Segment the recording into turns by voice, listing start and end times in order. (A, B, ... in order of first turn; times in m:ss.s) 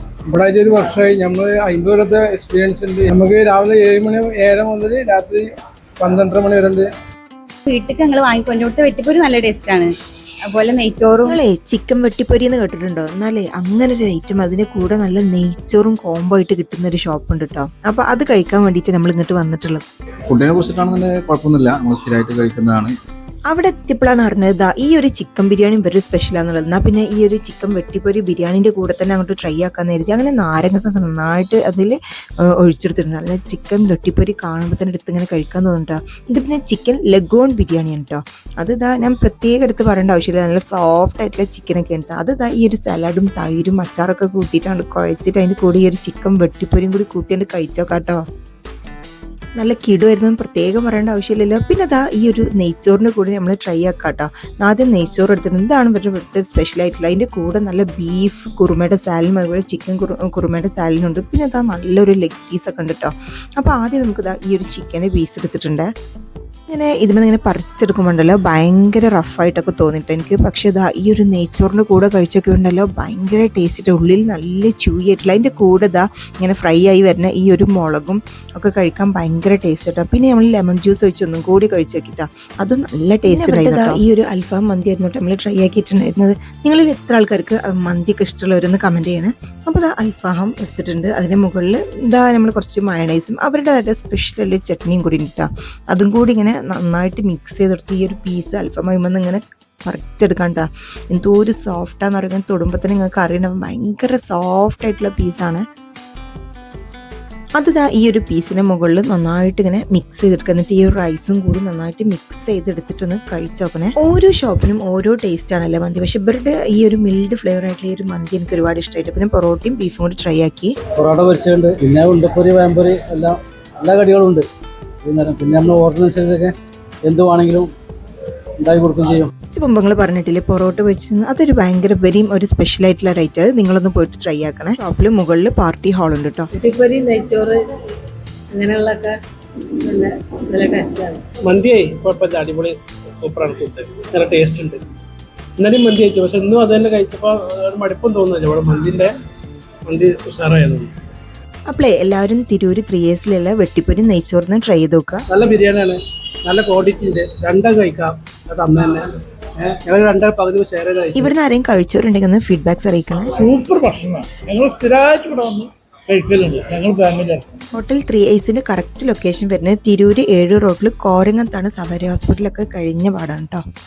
0:00.3-0:05.5 A
0:06.0-0:06.9 A
0:07.7-0:09.9 B
0:10.5-0:11.4 B
0:11.2-0:19.8 C
0:20.3-0:22.9 D
0:23.5-0:32.0 C
0:32.6-0:48.2 C
0:49.6-1:05.9 C
1:06.7-1:45.6 C
1:23.3-1:24.0 B
1:47.6-2:00.7 C
2:01.0-2:04.4 E
2:05.0-2:07.7 E
2:08.6-2:09.3 E
2:09.5-2:16.5 C
2:16.6-2:17.6 F
2:18.5-2:19.1 F
2:19.9-2:21.2 F
2:21.4-2:24.8 G
2:25.6-2:29.1 G
2:29.9-2:30.9 G
2:31.7-2:35.2 C
2:35.3-2:41.3 G
2:41.2-2:43.3 C
2:43.4-2:47.6 H
2:47.8-2:53.6 C